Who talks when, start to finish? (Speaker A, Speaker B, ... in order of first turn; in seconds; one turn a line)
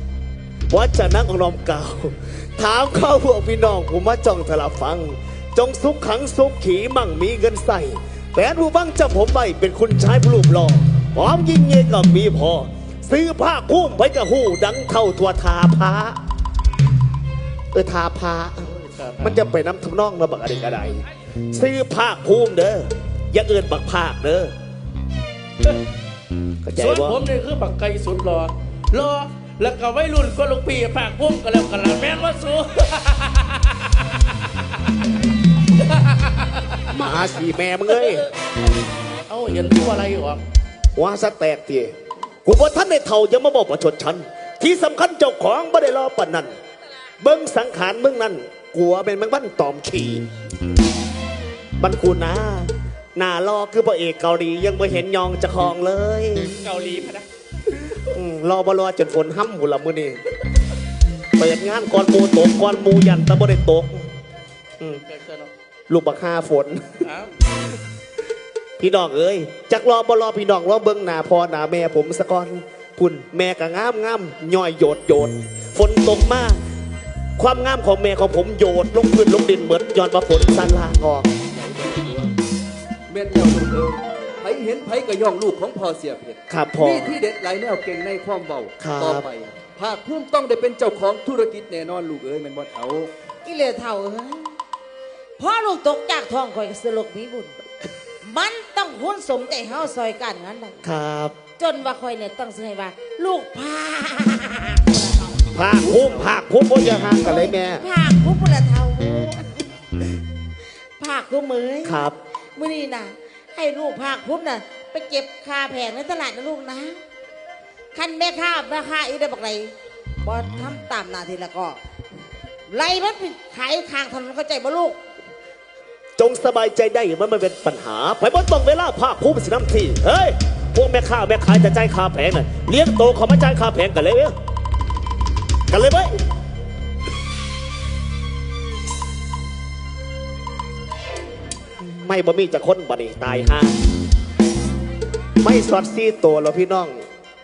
Speaker A: 0.7-16.2
Speaker A: 17.7-18.7
Speaker B: 18.8-19.4
Speaker A: 19.2-24.5
Speaker A: 26.6-27.2
Speaker B: 26.8-34.6
Speaker B: 35.8-36.8
Speaker A: 36.9-38.2
Speaker B: 37.9-38.5
Speaker B: 39.3-40.4
Speaker A: 40.9-41.9
Speaker A: 42.4-46.5
Speaker A: 47.2-50.2
Speaker A: 51.8-56.6
Speaker B: 56.6-57.3
Speaker A: 58.1-60.2
Speaker A: 61.4-64.1
Speaker B: 65.0-65.5
Speaker A: 65.9-67.0
Speaker B: 67.0-67.3
Speaker A: 68.8-76.6
Speaker A: 77.4-81.3
Speaker C: 81.5-82.3
Speaker C: 83.1-93.1
Speaker A: 86.5-87.2
Speaker A: 88.8-89.2
Speaker D: 93.4-94.5
Speaker D: 95.4-97.6
Speaker D: 98.2-100.8
Speaker A: 100.8-101.3
Speaker D: 101.6-106.3
Speaker A: 105.5-107.8
Speaker D: 107.2-109.8
Speaker D: 111.0-111.9
Speaker A: 111.8-112.2
Speaker D: 112.5-117.0
Speaker D: 117.9-121.8
Speaker D: 122.7-125.0
Speaker A: 126.2-134.3
Speaker A: 135.7-136.1
Speaker A: 141.8-143.8
Speaker A: 145.4-147.0